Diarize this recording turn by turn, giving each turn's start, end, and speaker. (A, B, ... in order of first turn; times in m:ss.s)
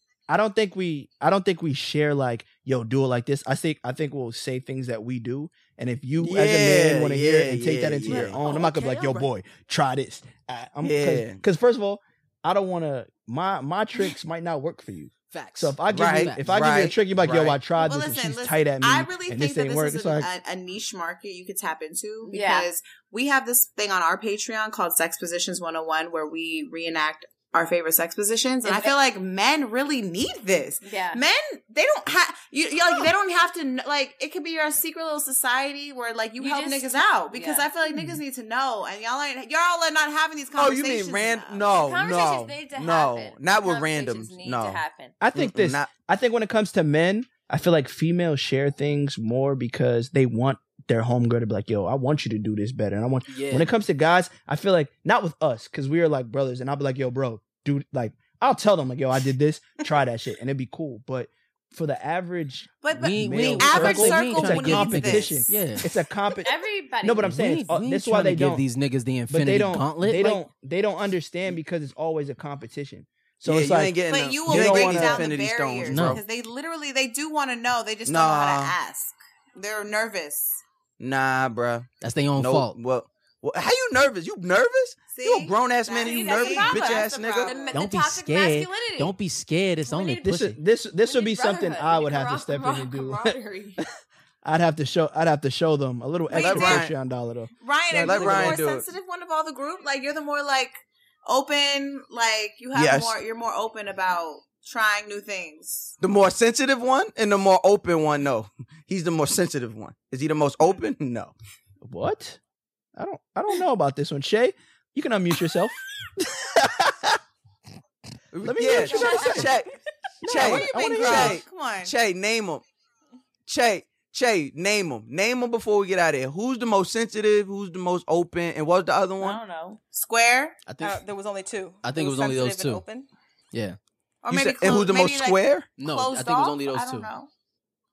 0:00.3-0:20.3 A
0:06.2-0:08.4 B
0:08.1-0:08.6 C
0:08.4-0:09.2 D
0:10.8-0:11.4 B
0:15.3-0:16.7 C
0:15.9-0:17.6 B
0:17.8-0:41.7 E
0:22.3-0:22.7 D
0:28.6-0:29.0 D
0:30.8-0:31.2 D
0:36.4-0:38.0 D
0:40.6-0:44.8 B
0:41.7-0:45.2 D
0:45.2-1:08.7 A
0:45.3-0:45.9 B
0:53.3-0:53.7 C
1:02.8-1:05.5 E
1:03.0-1:05.9 C
1:06.4-1:07.3 D
1:07.2-1:10.4 C
1:09.3-1:15.3 A
1:13.4-1:16.2 B
1:14.1-1:20.6 E
1:15.9-1:16.2 C
1:18.1-1:18.8 B
1:21.0-1:27.6 B
1:22.0-1:22.8 C
1:25.1-1:27.8 E
1:26.0-1:29.2 D
1:27.7-1:30.6 C
1:29.8-1:30.3 D
1:30.2-1:33.8 A
1:31.0-1:33.8 D
1:34.4-1:38.6 A
1:36.3-1:36.9 E
1:36.3-1:36.9 B
1:37.6-1:45.9 E
1:37.9-1:38.9 B
1:42.7-1:43.2 B
1:46.0-1:51.3 B
1:51.8-1:52.4 A
1:53.0-1:57.2 A
1:58.3-1:59.7 B
1:58.4-1:59.5 A
1:59.0-1:59.4 D
1:59.0-1:59.4 E
2:00.2-2:01.4 A
2:00.3-2:02.6 B
2:00.3-2:01.9 E
2:03.5-2:09.4 B
2:09.2-2:10.6 E
2:10.7-2:11.0 C
2:10.8-2:13.1 F
2:11.8-2:12.8 C
2:14.2-2:17.3 E
2:14.3-2:15.7 B
2:15.8-2:17.1 C